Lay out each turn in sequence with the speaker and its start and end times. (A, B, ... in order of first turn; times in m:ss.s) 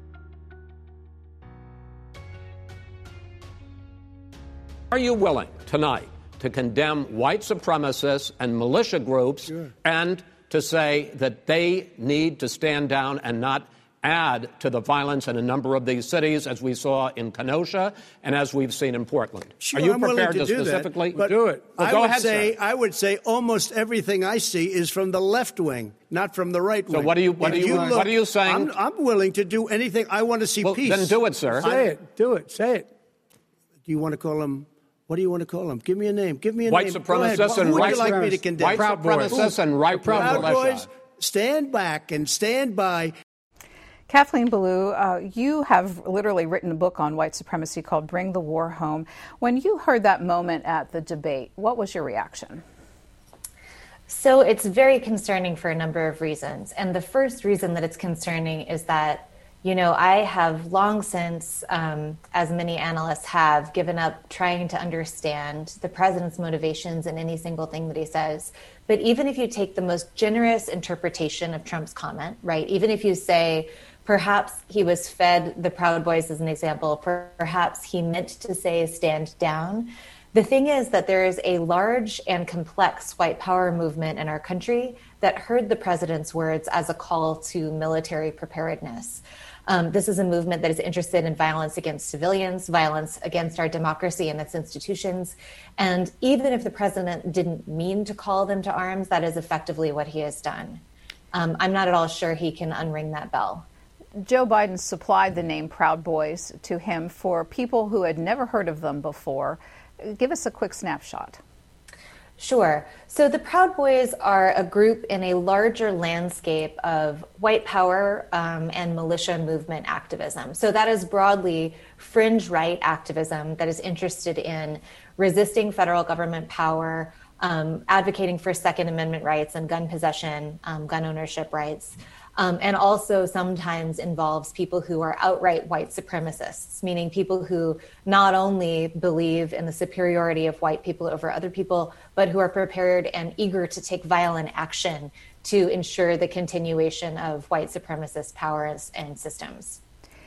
0:04.9-0:22.6 A
0:19.6-0:32.0 B
0:21.2-0:21.8 C
0:26.9-0:28.7 A
0:30.6-0:31.7 A
0:31.6-0:32.9 C
0:33.9-0:43.1 B
0:36.7-0:40.9 A
0:37.3-0:40.6 C
0:44.1-0:52.6 D
0:54.1-1:43.7 E
1:44.2-1:51.4 D
1:52.4-2:29.8 E